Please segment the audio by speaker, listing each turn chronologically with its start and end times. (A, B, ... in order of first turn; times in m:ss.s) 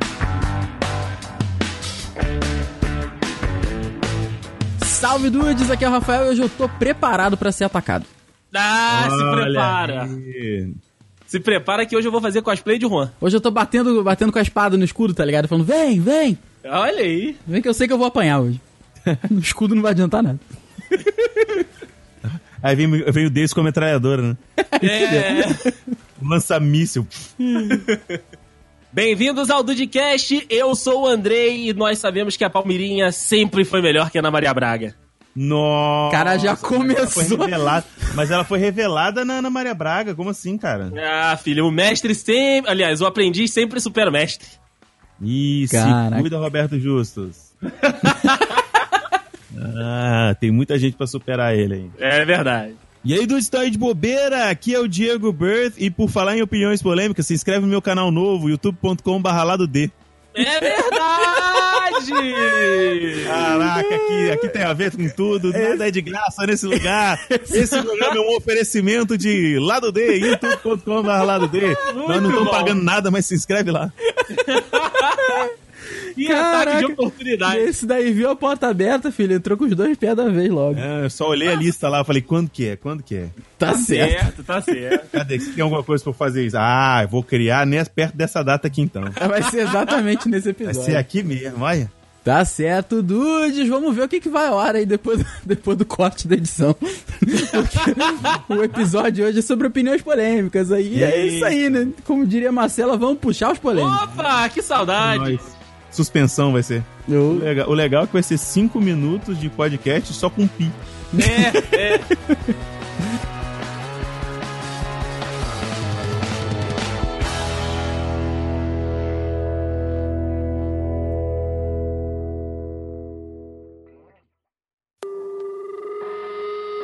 0:04.8-0:08.1 A
0:08.5-0:10.1 B
0:08.9-0:10.8 C
0:11.3-0:13.1 B
0:13.2-0:16.4 A
0:16.6-0:17.4 B
0:17.5-0:18.6 A
0:19.3-0:21.6 A
0:22.2-0:24.4 C
0:24.7-0:25.6 A
0:24.8-0:25.6 B
0:26.2-0:27.3 C
0:27.5-0:27.8 A
0:27.6-0:28.2 B
0:28.9-0:34.9 B
0:35.3-0:41.0 C
0:36.1-0:37.6 A
0:40.9-0:44.6 B
0:45.2-0:47.5 C
0:45.7-0:46.3 A
0:47.9-0:48.8 B
0:49.5-0:51.9 C
0:52.0-0:52.8 B
0:53.0-0:59.9 C
1:00.3-1:03.4 B
1:00.4-1:04.6 A
1:03.2-1:13.9 C
1:05.5-1:05.8 A
1:06.7-1:07.9 A
1:10.1-1:10.6 A
1:11.4-1:12.3 A
1:11.8-1:12.8 B
1:14.2-1:15.5 A
1:14.4-1:15.4 B
1:16.1-1:20.8 A
1:16.2-1:17.7 B
1:20.7-1:23.4 C
1:23.6-1:24.3 A
1:23.7-1:25.1 B
1:25.1-1:29.2 C
1:29.2-1:31.0 A
1:30.6-1:31.9 C
1:32.2-1:44.0 A
1:37.9-1:38.3 B
1:40.9-1:41.6 C
1:43.7-1:45.5 B
1:45.0-1:50.8 C
1:47.1-1:47.5 A
1:51.1-1:52.5 A
1:51.2-1:52.1 B